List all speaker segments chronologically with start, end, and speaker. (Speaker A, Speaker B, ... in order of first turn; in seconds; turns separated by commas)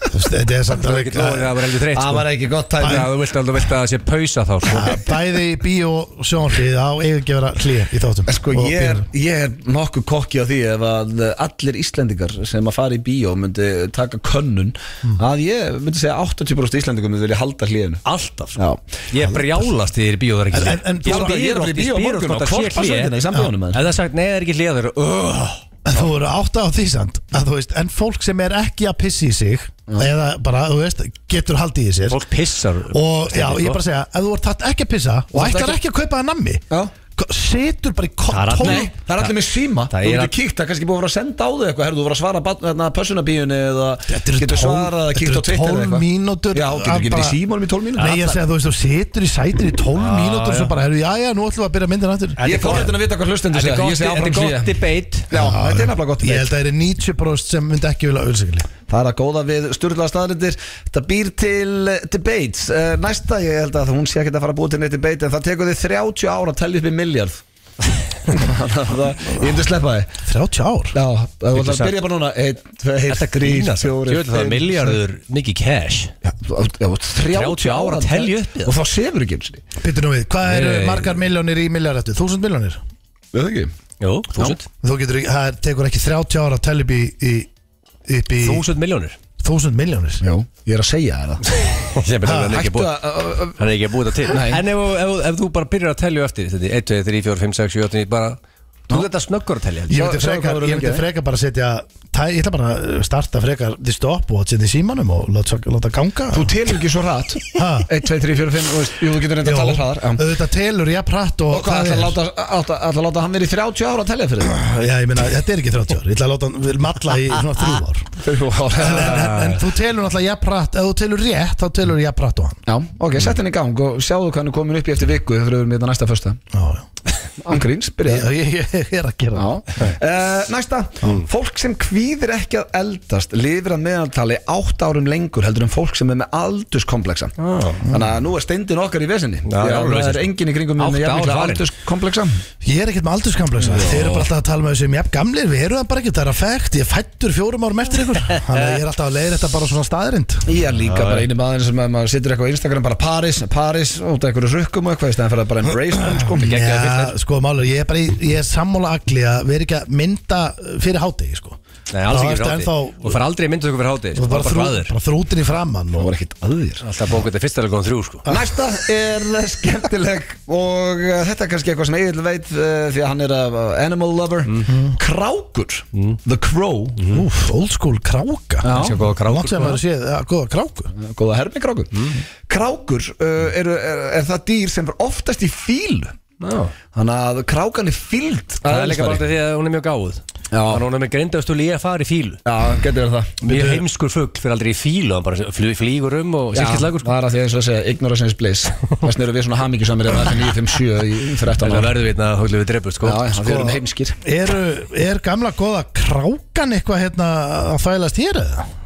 Speaker A: 0.1-1.6, Speaker B: 0.7-5.0, Speaker C: 1.9-3.1, Speaker A: 4.7-9.0, Speaker C: 8.3-18.1, Speaker B: 18.1-18.6, Speaker C: 18.6-18.8, Speaker B: 19.1-23.1, Speaker A: 20.5-21.4, Speaker C: 21.1-23.8, Speaker B: 23.7-25.6, Speaker A: 25.9-32.2, Speaker B: 32.1-33.8, Speaker A: 32.9-36.6, Speaker C: 35.3-35.8, Speaker A: 37.2-38.9, Speaker B: 38.3-39.3, Speaker C: 38.6-48.4, Speaker B: 39.9-40.3, Speaker A: 44.1-47.4, Speaker A: 48.0-52.9, Speaker B: 50.0-50.7, Speaker B: 52.4-52.9, Speaker C: 52.4-56.5, Speaker B: 53.5-55.3, Speaker A: 55.3-58.7, Speaker C: 58.9-67.4, Speaker C: 68.3-70.1, Speaker A: 70.2-71.0, Speaker C: 70.9-75.0, Speaker B: 71.5-72.0, Speaker B: 73.1-76.1, Speaker C: 76.2-79.7, Speaker B: 77.3-78.8, Speaker A: 79.8-82.8, Speaker B: 80.5-81.2, Speaker C: 83.3-83.7, Speaker B: 84.0-84.6, Speaker A: 84.8-87.5, Speaker A: 88.1-88.7, Speaker B: 88.4-89.2, Speaker A: 89.4-90.2, Speaker C: 90.2-91.6, Speaker B: 91.7-98.4, Speaker A: 92.3-92.5, Speaker C: 92.3-93.6, Speaker C: 94.2-94.6, Speaker B: 98.9-100.0, Speaker A: 99.9-106.6, Speaker C: 99.9-101.0, Speaker C: 106.3-110.3, Speaker A: 107.5-107.9, Speaker A: 109.4-112.2, Speaker C: 111.5-114.6, Speaker A: 114.4-118.1, Speaker C: 118.2-119.6, Speaker A: 118.8-122.6, Speaker B: 119.1-119.4, Speaker C: 122.7-126.4, Speaker A: 126.5-126.9, Speaker C: 127.4-128.3, Speaker A: 128.1-129.5, Speaker C: 129.4-137.3, Speaker B: 137.4-137.8, Speaker C: 137.9-142.4, Speaker B: 139.5-141.7, Speaker A: 142.6-150.4, Speaker B: 143.8-144.3, Speaker B: 148.4-148.7, Speaker C: 150.5-156.5, Speaker B: 150.8-151.2, Speaker B: 156.4-157.2, Speaker A: 156.4-163.2, Speaker B: 161.9-164.9, Speaker A: 164.2-166.1, Speaker C: 166.0-166.8, Speaker B: 166.8-168.3, Speaker C: 168.3-177.2, Speaker A: 177.1-180.9, Speaker C: 178.6-179.0, Speaker B: 178.7-179.8, Speaker C: 181.0-181.9, Speaker B: 181.9-182.2, Speaker C: 182.5-186.2, Speaker B: 186.4-186.7, Speaker C: 186.9-189.2, Speaker B: 188.7-192.4, Speaker C: 190.5-190.8, Speaker C: 192.4-193.4, Speaker A: 193.4-193.8, Speaker B: 193.4-197.1, Speaker C: 196.6-201.9, Speaker B: 201.6-203.3, Speaker C: 203.0-204.2, Speaker A: 203.4-208.7